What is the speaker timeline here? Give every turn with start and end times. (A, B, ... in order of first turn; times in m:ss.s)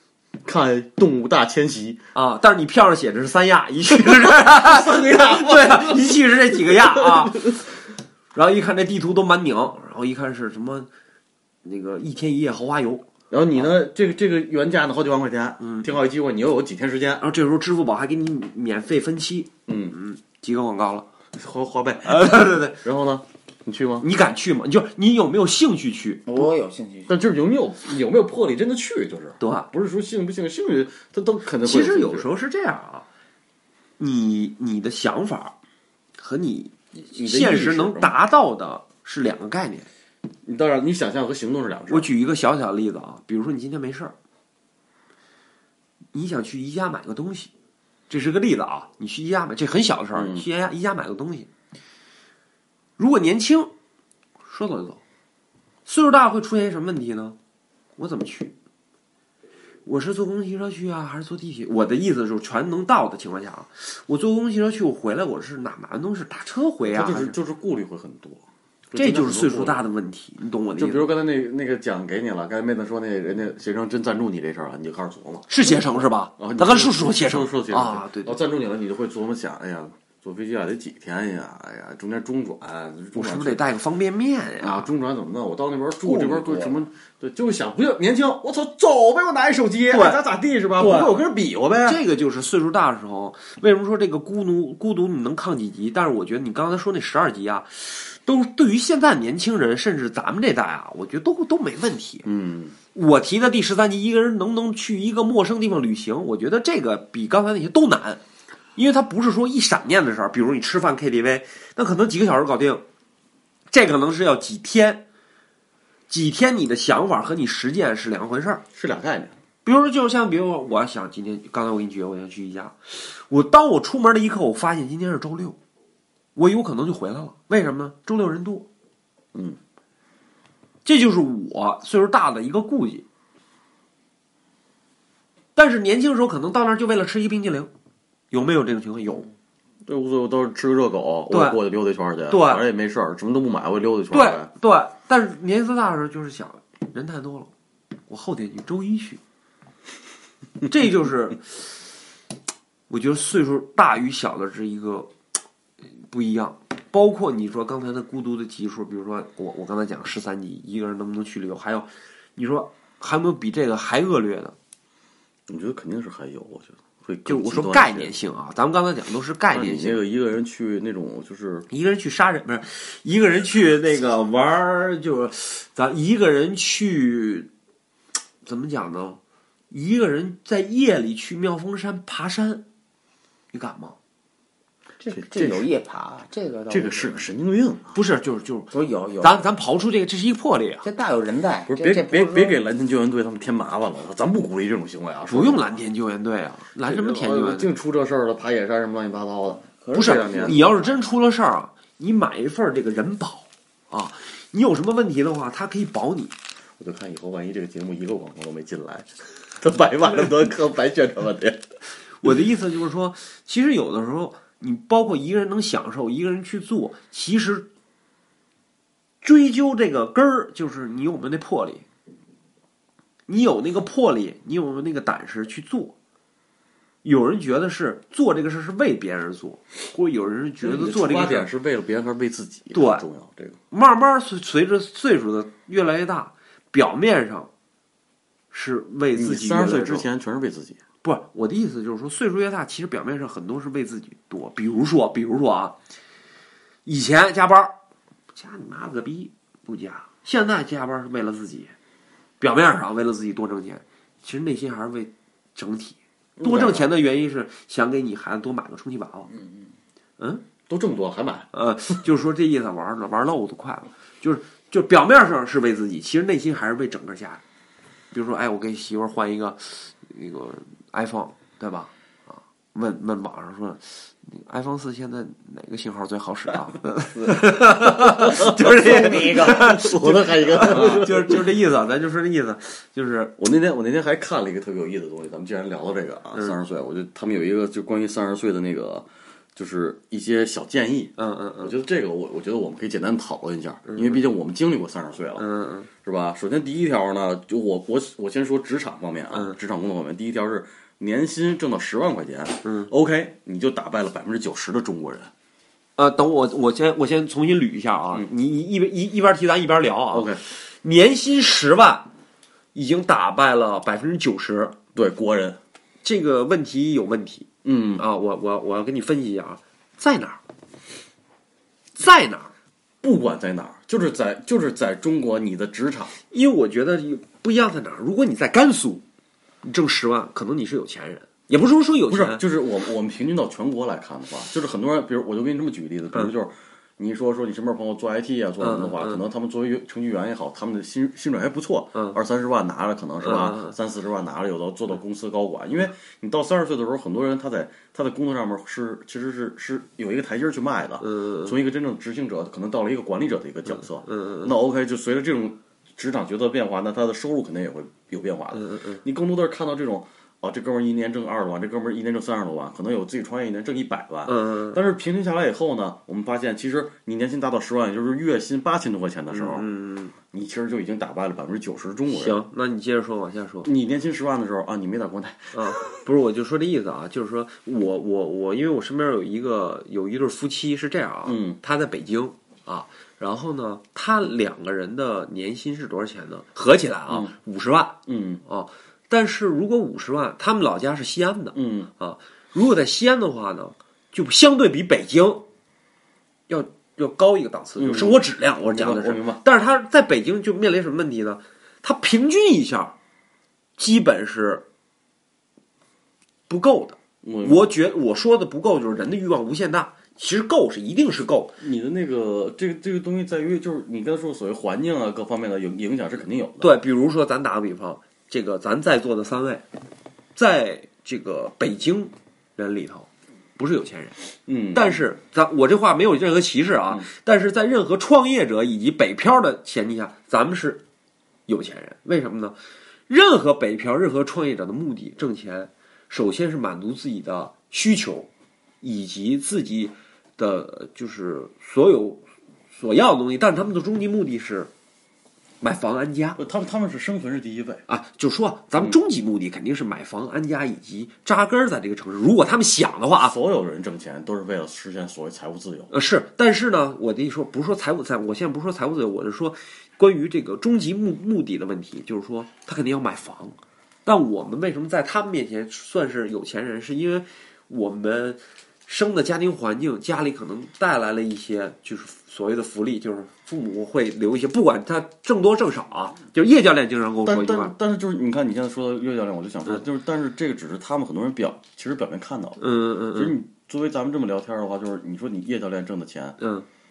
0:00.4-0:02.0 A
0:02.1-0:07.6 B
0:03.9-0:07.5 A
0:08.3-0:10.9 B
0:11.6-0:13.1 B
0:13.3-0:17.2 A
0:15.6-0:15.9 B
0:17.2-0:21.1 B
0:19.7-0:19.9 A
0:21.4-0:24.1 A
0:22.0-0:22.8 B
0:24.0-0:26.4 B
0:26.3-0:27.1 C
0:27.1-0:32.3 A
0:29.4-0:29.7 B
0:31.6-0:33.0 B
0:34.0-0:35.6 B
0:36.2-0:39.9 B
0:37.1-0:38.1 A
0:40.4-0:42.1 A
0:41.9-0:44.1 B
0:46.1-0:47.5 B
0:48.1-0:51.5 B
0:50.1-0:50.4 A
0:53.0-0:53.7 B
0:54.4-0:55.0 B
0:55.8-0:57.4 B
0:58.0-0:58.5 B
0:59.8-1:07.3 B
1:06.9-1:09.8 A
1:09.0-1:11.1 B
1:10.8-1:23.6 A
1:15.5-1:18.4 B
1:23.1-1:24.9 B
1:24.6-1:32.0 A
1:26.0-1:26.8 C
1:29.9-1:30.2 B
1:30.8-1:31.1 B
1:31.8-1:42.3 B
1:42.2-1:42.7 A
1:42.9-1:48.2 B
1:48.8-1:52.8 B
1:53.7-1:55.0 B
1:56.1-1:58.6 B
1:58.7-1:59.3 A
1:59.6-2:05.6 B
2:06.4-2:08.7 B
2:10.8-2:13.0 B
2:15.5-2:17.7 B
2:18.3-2:19.3 B
2:19.8-2:24.5 A
2:21.3-2:21.6 B
2:22.3-2:22.6 B
2:24.1-2:27.5 B
2:28.1-2:29.2 B
2:30.6-2:31.7 B
2:32.9-2:35.1 B
2:36.1-2:44.5 B
2:45.5-2:48.1 A
2:47.2-2:50.0 B
2:49.5-2:51.7 A
2:51.7-2:57.5 B
2:58.4-2:59.2 B
2:59.7-3:02.6 B
3:03.5-3:04.0 B
3:05.0-3:07.2 C
3:05.1-3:05.7 A
3:06.7-3:08.0 A
3:07.9-3:10.8 B
3:08.7-3:09.4 C
3:10.8-3:12.6 C
3:11.7-3:15.7 A
3:15.3-3:17.7 B
3:16.8-3:20.6 A
3:19.6-3:20.8 C
3:19.9-3:26.3 B
3:26.8-3:31.6 A
3:32.2-3:37.7 B
3:39.2-3:41.8 B
3:43.3-3:45.9 B
3:47.0-3:51.5 B
3:50.6-3:53.6 A
3:52.7-3:53.0 B
3:53.7-3:57.5 B
3:58.5-4:00.0 B
3:59.1-4:00.8 A
4:01.0-4:05.8 B
4:06.8-4:07.7 B
4:08.3-4:11.7 B
4:12.4-4:19.3 B
4:16.4-4:16.9 A
4:20.2-4:20.4 B
4:20.7-4:21.5 A
4:21.5-4:27.4 B
4:28.1-4:43.3 B
4:38.3-4:41.5 A
4:38.4-4:39.8 C
4:43.4-4:55.4 A
4:51.2-4:51.7 B
4:53.9-4:54.2 B
4:55.4-4:55.9 B
4:56.0-5:05.3 A
5:02.6-5:02.9 B
5:06.0-5:12.1 B
5:10.1-5:10.4 A
5:12.7-5:14.8 B
5:14.9-5:15.6 A
5:16.0-5:20.4 B
5:17.6-5:18.0 A
5:22.0-5:22.5 B
5:23.0-5:26.1 A
5:26.3-5:29.0 B
5:29.6-5:32.4 B
5:32.1-6:09.7 A
5:38.6-5:39.2 B
5:43.2-5:43.7 B
5:51.0-5:51.6 B
5:54.0-5:54.5 B
5:58.5-5:59.0 B
6:04.2-6:04.8 B
6:09.3-6:10.1 B
6:10.3-6:12.4 A
6:12.1-6:13.7 B
6:13.6-6:15.9 A
6:15.5-6:35.4 B
6:21.2-6:21.6 A
6:27.1-6:27.3 A
6:28.0-6:28.4 A
6:31.5-6:31.9 A
6:36.5-6:43.0 B
6:37.8-6:39.4 A
6:43.8-6:44.6 B
6:46.5-6:51.5 B
6:47.2-6:47.6 A
6:51.6-6:56.7 A
6:56.6-6:59.6 B
7:00.4-7:04.2 B
7:04.5-7:05.0 A
7:04.7-7:10.8 B
7:11.5-7:12.6 B
7:13.1-7:18.3 B
7:18.8-7:24.7 B
7:25.6-7:26.4 B
7:26.4-7:27.8 A
7:27.9-7:33.4 B
7:33.2-7:35.9 A
7:35.9-7:57.7 B
7:57.2-8:02.6 A
8:02.6-8:03.4 B
8:03.1-8:06.4 A
8:06.4-8:06.6 B